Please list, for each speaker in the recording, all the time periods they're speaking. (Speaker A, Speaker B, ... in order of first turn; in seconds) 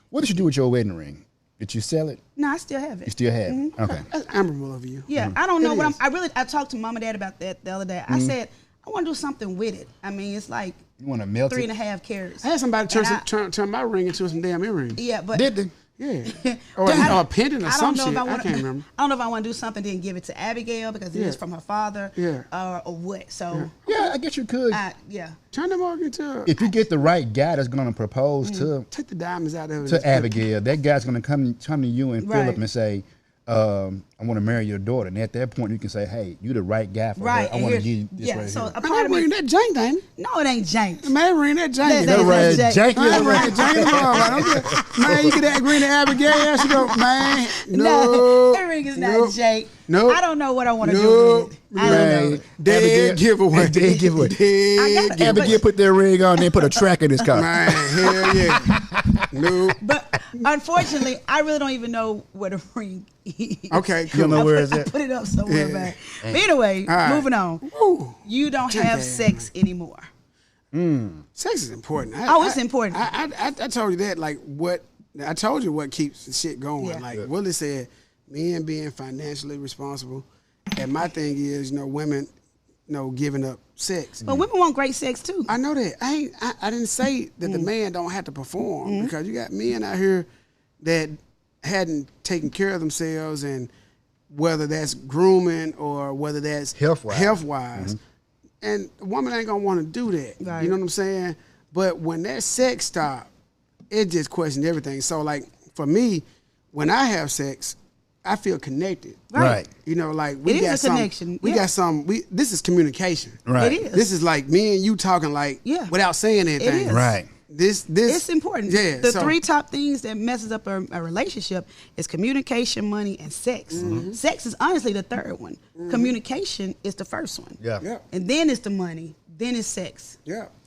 Speaker A: 0.1-2.2, 3.0-4.0, 8.1-8.3, 11.0-11.7, 15.3-15.7, 16.8-17.2, 23.9-24.8, 26.4-28.9, 29.9-38.7, 42.0-45.4, 51.8-54.4, 55.1-59.5, 64.1-64.9, 70.7-71.2, 96.7-98.0, 109.3-109.7, 113.5-113.8, 116.9-117.3, 123.7-124.0, 127.6-127.8
Speaker B: 2.4-3.8, 5.1-10.8, 11.5-13.2, 14.9-15.5, 16.3-24.0, 24.7-25.4, 28.4-28.7, 32.2-32.6, 37.2-39.3, 40.2-41.1, 41.8-45.7, 46.3-52.4, 53.8-55.6, 56.3-57.2, 58.0-58.3, 59.8-67.6, 68.2-70.1, 72.3-73.0, 84.2-85.5, 87.4-87.7, 88.8-89.1, 100.4-100.8, 109.3-109.6, 110.5-111.6, 113.5-114.1, 115.6-115.9, 116.6-117.2, 118.0-127.6, 128.1-130.2
Speaker C: 3.8-5.1, 5.6-6.0, 12.4-15.0, 16.0-18.9, 21.1-21.4, 22.1-22.5, 25.5-26.5, 28.9-30.5, 38.8-40.0, 41.0-50.2, 50.8-55.6, 57.3-58.8, 59.3-59.8, 63.7-64.5, 65.5-66.0, 66.9-69.5, 71.3-80.2, 80.8-82.3, 82.9-84.2, 85.5-90.3, 90.8-93.7, 94.3-98.0, 98.6-103.3, 103.9-119.4, 123.7-124.2, 125.8-126.1, 127.8-128.0